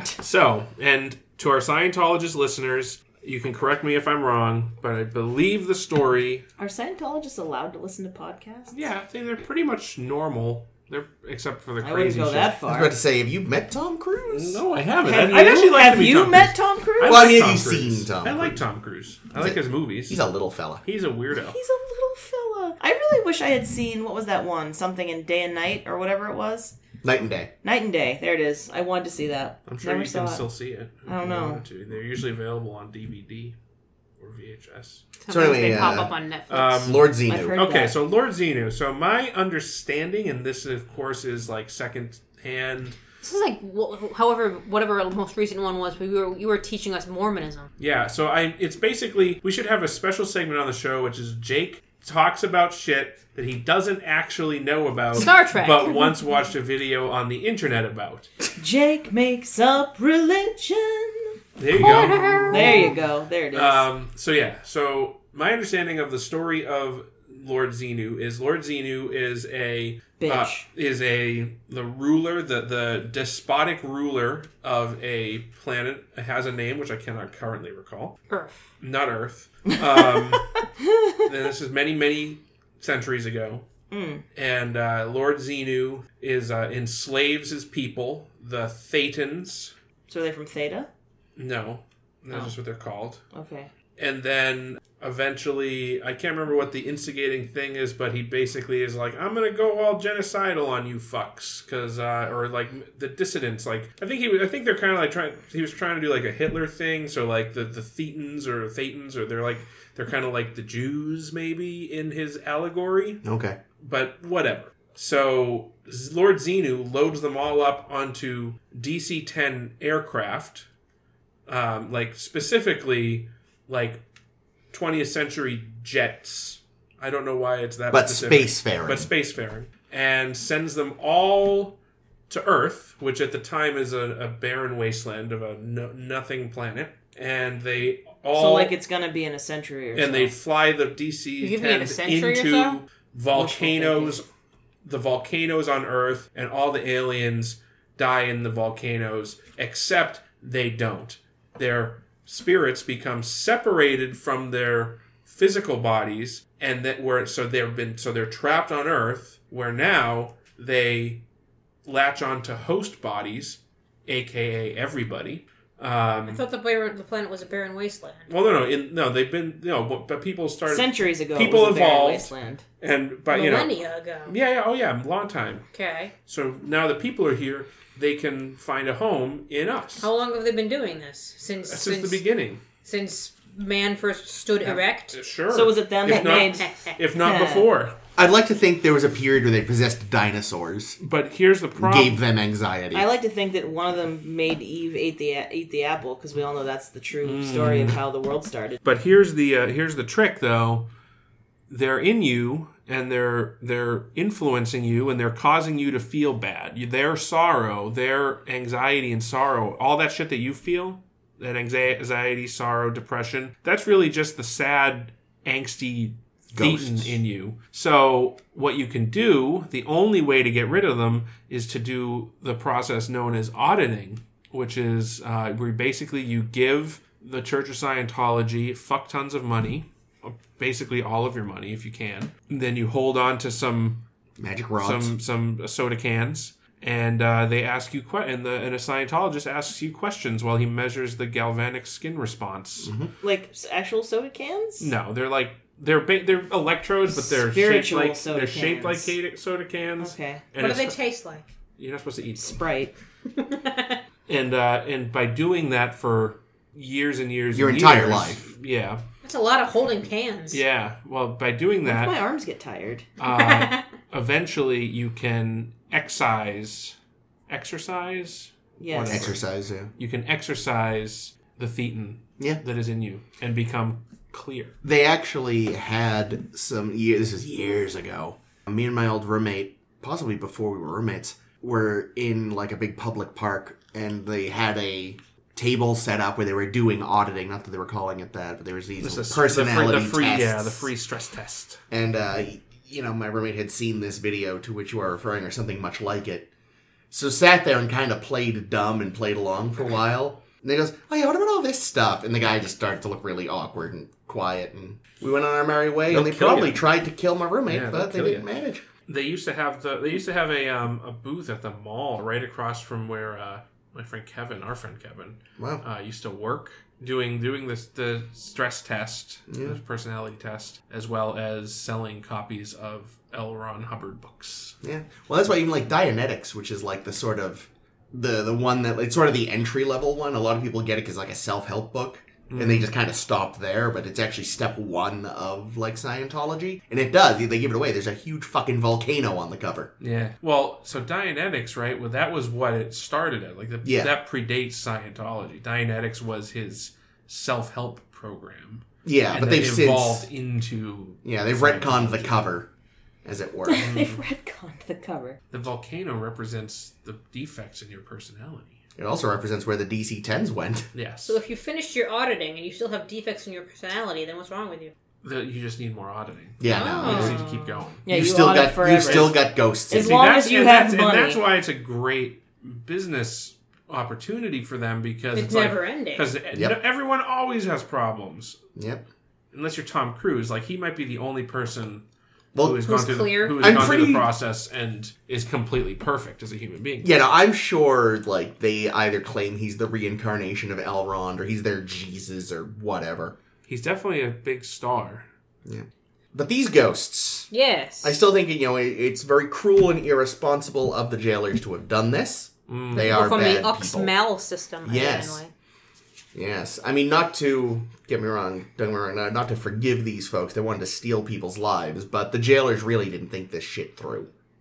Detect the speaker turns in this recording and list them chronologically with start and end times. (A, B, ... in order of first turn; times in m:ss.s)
0:00.2-0:06.4 A
0:06.6-0:08.8 B
0:08.7-0:12.6 A
0:11.8-0:12.9 B
0:12.7-0:14.6 C
0:14.2-0:20.2 A
0:15.0-0:17.3 B
0:17.0-0:18.6 C
0:19.4-0:20.8 C
0:20.8-0:21.6 A
0:21.4-0:26.8 B
0:27.0-0:27.5 C
0:27.6-0:30.5 B
0:29.7-0:33.6 A
0:31.0-0:31.6 B
0:34.2-0:35.1 A
0:35.2-0:37.0 D
0:35.3-0:36.1 C
0:36.5-0:43.0 A
0:36.7-0:37.6 C
0:37.3-0:37.9 B
0:43.2-0:47.7 D
0:47.8-0:58.3 A
0:55.1-0:56.2 D
0:58.6-1:01.4 B
1:01.6-1:02.9 A
1:01.8-1:02.9 D
1:02.5-1:03.9 B
1:03.5-1:18.2 A
1:10.2-1:10.6 B
1:18.3-1:18.6 D
1:18.8-1:20.7 A
1:20.6-1:21.2 B
1:21.2-1:23.6 A
1:23.9-1:24.2 B
1:24.3-1:29.7 A
1:30.1-1:30.9 B
1:31.4-1:33.2 A
1:33.3-1:33.7 B
1:34.0-1:53.2 A
1:53.2-1:53.6 C
1:53.8-2:00.6 A
2:01.5-2:04.0 A
2:04.7-2:11.8 A
2:07.9-2:09.1 C
2:12.3-2:18.7 A
2:18.3-2:20.3 B
2:19.9-2:24.2 A
2:21.4-2:22.8 D
2:23.3-2:24.2 B
2:24.8-2:41.2 A
2:41.8-2:46.4 A
2:46.3-2:48.3 D
2:48.3-2:55.7 A
2:50.7-2:52.6 B
2:53.3-2:54.3 D
2:55.7-2:56.1 D
2:56.3-3:00.1 A
3:00.0-3:02.2 D
3:01.6-3:02.6 A
3:02.8-3:05.2 D
3:05.1-3:08.0 A
3:05.5-3:07.7 B
3:06.1-3:07.0 D
3:08.2-3:11.0 C
3:11.0-3:12.2 A
3:11.8-3:13.1 C
3:12.9-3:18.8 B
3:17.2-3:18.0 A
3:18.8-3:20.9 A
3:21.7-3:54.0 A
3:36.5-3:37.2 C
3:54.4-3:55.1 C
3:54.8-4:02.9 A
4:02.8-4:03.1 C
4:03.2-4:04.9 B
4:04.8-4:11.0 A
4:07.1-4:09.1 B
4:10.0-4:10.4 B
4:10.6-4:11.4 D
4:11.8-4:12.6 A
4:12.4-4:12.9 B
4:13.3-4:14.0 D
4:14.3-4:19.0 A
4:17.5-4:18.5 C
4:19.2-4:20.6 D
4:20.5-4:22.2 A
4:21.8-4:23.0 B
4:23.2-4:26.9 A
4:23.2-4:23.8 D
4:27.5-4:29.4 A
4:28.8-4:29.3 B
4:29.1-4:29.9 C
4:30.0-4:34.7 A
4:34.8-4:50.9 C
4:49.0-4:51.8 A
4:51.9-4:56.5 C
4:57.1-5:08.8 C
5:06.1-5:06.8 A
5:07.7-5:08.5 A
5:09.1-5:24.8 A
5:15.6-5:15.8 C
5:19.5-5:19.8 C
5:24.8-5:39.9 C
5:32.5-5:32.9 A
5:40.0-5:52.5 A
5:43.8-5:44.1 C
5:49.0-5:50.3 C
5:51.2-5:52.7 C
5:53.2-5:53.9 C
5:53.6-5:55.4 B
5:53.8-5:54.2 A
5:55.5-5:58.8 A
5:59.0-6:00.9 C
6:00.9-6:01.4 A
6:01.2-6:04.9 D
6:05.2-6:08.0 A
6:06.6-6:07.4 C
6:06.7-6:07.4 D
6:07.0-6:11.4 B
6:08.1-6:10.2 C
6:09.0-6:09.4 A
6:09.9-6:18.6 A
6:15.3-6:16.3 D
6:16.5-6:16.8 C
6:18.8-6:19.0 C
6:19.5-6:22.0 A
6:22.5-6:24.3 C
6:22.6-6:27.1 A
6:22.8-6:23.8 D
6:27.0-6:33.4 C
6:33.7-6:35.2 A
6:35.6-6:37.5 C
6:37.5-6:38.2 D
6:38.0-6:44.1 C
6:42.7-6:43.1 A
6:42.9-6:45.5 D
6:44.8-6:45.4 C
6:46.3-6:54.3 C